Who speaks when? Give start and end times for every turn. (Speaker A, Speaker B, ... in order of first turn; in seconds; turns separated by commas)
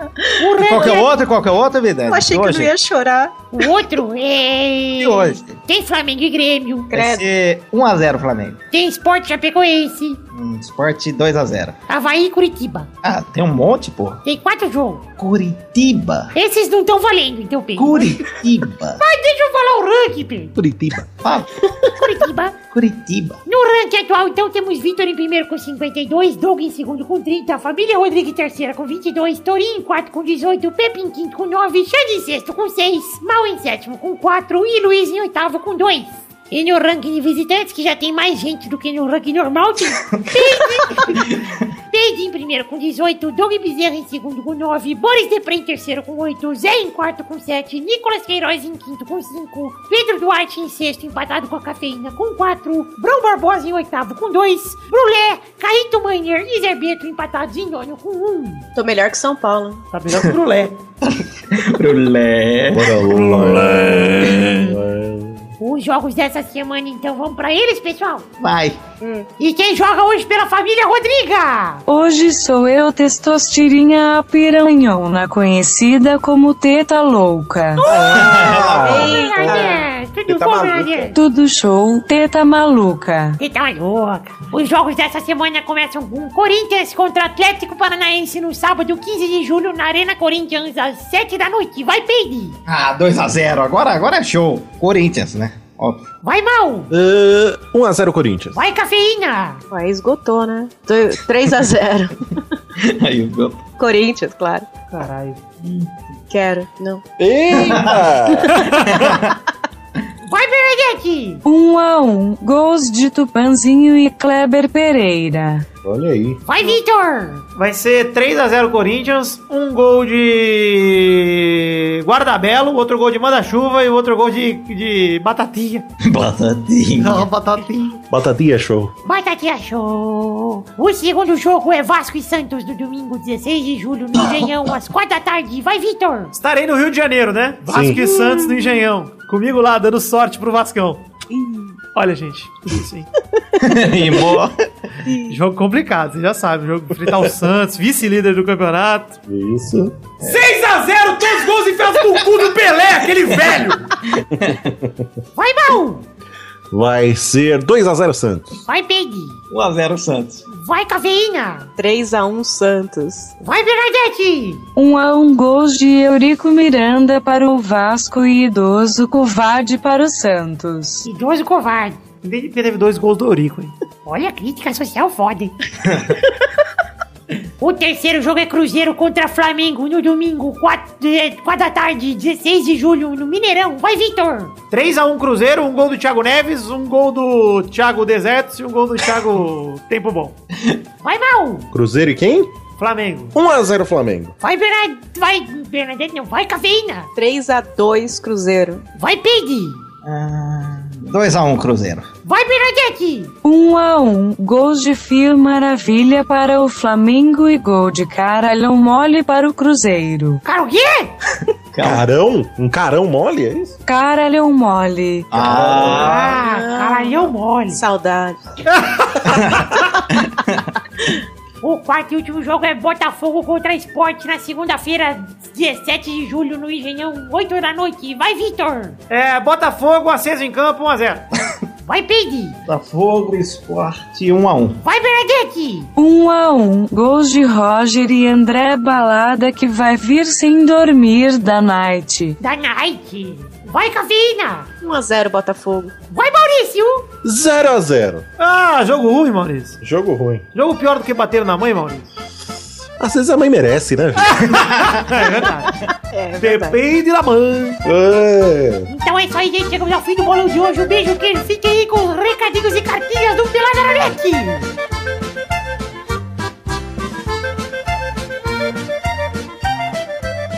Speaker A: 0.4-1.1, Speaker B: 0.5-2.7, Speaker C: 0.8-1.0, Speaker C: 2.1-3.6, Speaker A: 3.5-6.9, Speaker B: 5.0-5.6, Speaker C: 6.9-7.2, Speaker B: 6.9-8.6, Speaker A: 8.7-10.2, Speaker B: 10.3-11.8, Speaker A: 11.9-12.9, Speaker B: 13.0-14.2, Speaker A: 14.2-15.1, Speaker B: 15.2-16.3, Speaker A: 16.3-18.2, Speaker B: 17.8-19.0, Speaker A: 19.0-20.5, Speaker D: 20.6-21.1, Speaker B: 21.2-21.6, Speaker A: 21.9-22.6, Speaker B: 22.7-23.4, Speaker A: 23.5-41.4, Speaker B: 40.0-40.5, Speaker B: 41.1-41.6, Speaker A: 41.9-58.7, Speaker C: 58.8-59.8, Speaker E: 59.9-60.8, Speaker B: 61.0-64.7, Speaker D: 62.7-65.5, Speaker A: 65.6-68.3, Speaker B: 68.4-68.8, Speaker C: 69.0-69.3, Speaker A: 69.4-71.8, Speaker F: 71.9-77.8, Speaker A: 77.8-81.2, Speaker D: 77.9-81.2, Speaker B: 77.9-79.1, Speaker C: 78.8-79.8, Speaker F: 81.2-83.4, Speaker A: 83.4-92.6, Speaker B: 92.7-96.1, Speaker A: 96.2-96.9, Speaker D: 96.9-98.6, Speaker A: 98.5-99.6, Speaker C: 99.7-102.4, Speaker B: 102.8-103.7, Speaker C: 103.8-104.8, Speaker E: 104.9-105.4, Speaker B: 105.6-105.9, Speaker C: 106.3-107.0, Speaker D: 107.2-108.7, Speaker B: 107.5-108.1, Speaker E: 108.6-108.8, Speaker B: 108.7-109.4, Speaker A: 110.3-111.4, Speaker F: 111.5-115.7, Speaker D: 115.8-116.4, Speaker A: 116.5-117.5, Speaker E: 117.6-125.8, Speaker B: 126.0-127.3, Speaker E: 127.0-128.0, Speaker D: 128.1-128.9, Speaker A: 129.1-136.3, Speaker E: 136.3-141.0, Speaker D: 137.7-138.0, Speaker C: 141.3-141.7, Speaker E: 141.9-143.1, Speaker B: 143.6-144.6, Speaker C: 145.1-145.4, Speaker E: 145.2-149.2, Speaker D: 149.3-150.0, Speaker E: 150.2-153.9, Speaker B: 154.1-154.7, Speaker A: 155.4-156.1, Speaker D: 156.7-158.6, Speaker A: 158.7-159.4, Speaker B: 159.5-160.4, Speaker A: 160.5-161.7, Speaker C: 161.8-163.3, Speaker A: 163.4-164.7, Speaker F: 164.8-171.1, Speaker A: 171.1-172.0, Speaker E: 172.2-173.7, Speaker A: 174.1-175.5, Speaker B: 175.8-176.2, Speaker A: 177.6-184.6, Speaker E: 184.7-190.4, Speaker A: 191.0-191.7, Speaker D: 191.7-192.5, Speaker E: 192.8-193.3, Speaker D: 193.3-194.3, Speaker A: 194.4-197.1, Speaker C: 197.2-198.8, Speaker A: 198.9-199.8, Speaker B: 200.0-202.1, Speaker A: 202.2-203.3, Speaker F: 203.4-210.4, Speaker A: 210.4-211.1, Speaker B: 211.7-212.1, Speaker D: 211.8-213.8, Speaker F: 213.9-215.3, Speaker B: 215.3-216.4, Speaker D: 215.4-216.2, Speaker A: 215.9-217.8, Speaker C: 216.3-218.4, Speaker E: 218.7-219.3, Speaker B: 219.3-220.7, Speaker A: 221.6-229.0, Speaker E: 229.1-231.3, Speaker A: 231.9-232.6, Speaker B: 232.7-234.8, Speaker A: 234.8-235.9, Speaker F: 236.0-242.4, Speaker A: 242.4-244.7, Speaker C: 244.8-245.9, Speaker A: 246.1-247.1, Speaker D: 247.2-248.2, Speaker E: 248.4-249.8, Speaker D: 249.8-250.4, Speaker E: 250.5-252.1, Speaker D: 253.0-254.4, Speaker E: 254.3-255.8, Speaker C: 256.1-256.8, Speaker E: 256.4-257.8, Speaker D: 257.9-258.9, Speaker A: 258.9-264.7